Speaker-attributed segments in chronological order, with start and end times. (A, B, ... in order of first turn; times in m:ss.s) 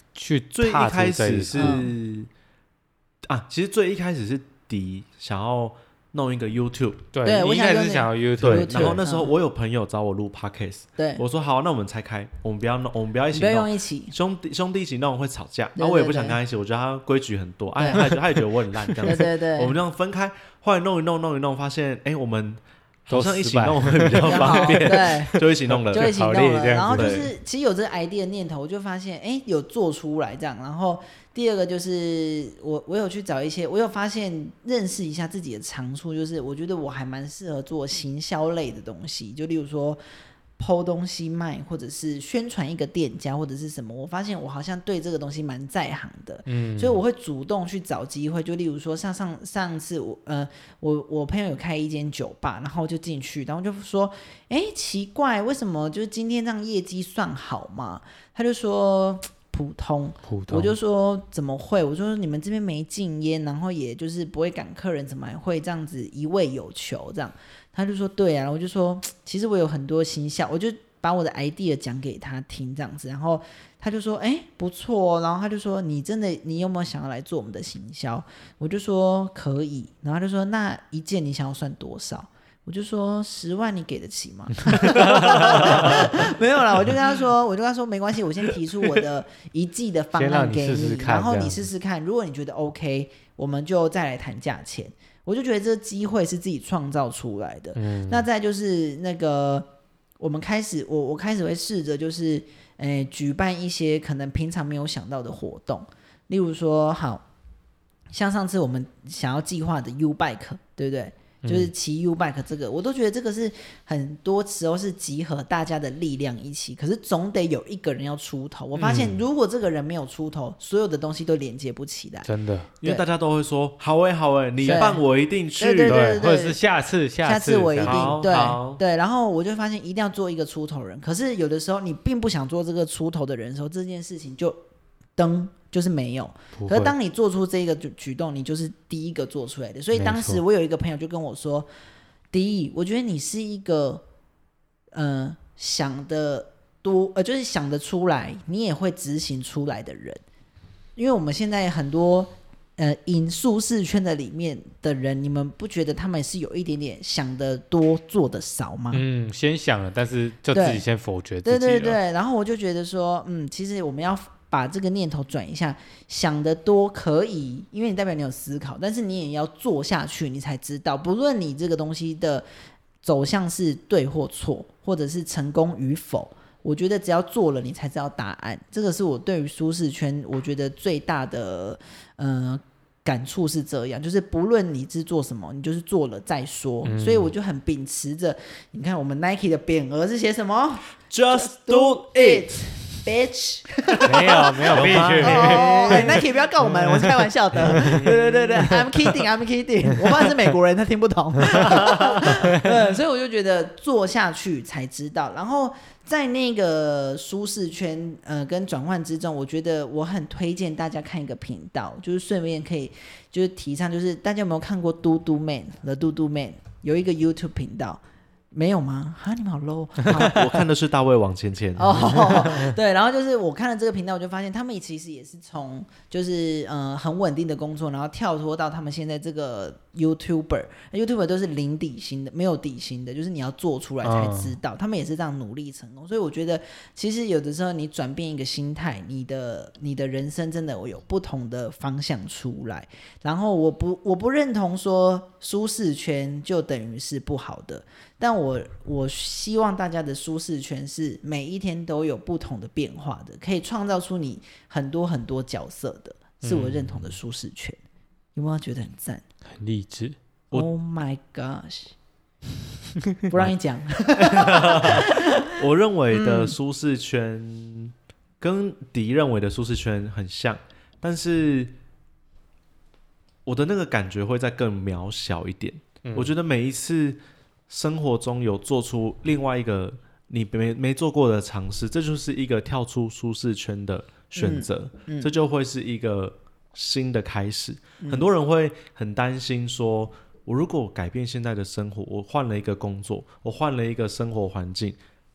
0:00.1-0:01.8 A
0:00.5-0:02.3 B
0:01.5-0:01.9 C
0:03.2-0:07.0 B
0:07.1-0:09.0 A
0:07.2-0:09.3 C
0:08.4-0:26.1 B
0:11.0-0:11.2 C
0:13.3-0:14.1 C
0:15.8-0:16.4 C
0:17.8-0:18.1 C
0:19.0-0:19.8 C
0:23.1-0:27.3 A
0:24.2-0:40.0 C
0:26.9-0:27.3 B
0:40.6-1:39.7 C
0:46.5-0:47.0 A
1:00.2-1:00.8 A
1:25.1-1:25.6 A
1:25.1-1:26.2 B
1:30.2-1:31.6 A
1:37.7-1:38.3 A
1:40.2-1:47.2 C
1:48.1-2:02.3 C
1:51.4-1:51.7 A
1:58.8-1:59.2 A
2:02.2-2:02.7 A
2:02.8-2:06.1 B
2:04.6-2:05.0 C
2:05.6-2:06.6 C
2:05.8-2:08.3 A
2:07.2-2:14.6 C
2:07.8-2:08.8 B
2:15.2-2:21.7 C
2:16.6-2:16.9 A
2:19.9-2:20.4 A
2:22.3-2:24.0 C
2:24.9-2:30.2 C
2:31.0-2:39.0 C
2:38.9-2:42.0 A
2:40.5-2:40.8 C
2:41.4-2:52.4 C
2:53.0-3:40.5 C
3:06.8-3:07.3 A
3:11.1-3:12.6 B
3:14.0-3:18.1 A
3:14.7-3:16.3 B
3:17.6-3:18.8 B
3:21.5-3:22.2 B
3:40.1-3:42.4 B
3:41.8-4:17.8 C
3:54.0-3:54.6 A
4:16.4-4:17.1 A
4:18.3-4:19.2 C
4:19.5-4:20.2 A
4:20.5-4:21.9 C
4:23.3-4:25.5 C
4:24.2-4:31.7 B
4:26.1-4:26.5 C
4:33.4-4:55.0 B
4:36.0-4:36.3 A
4:44.4-4:45.3 C
4:48.0-4:48.3 C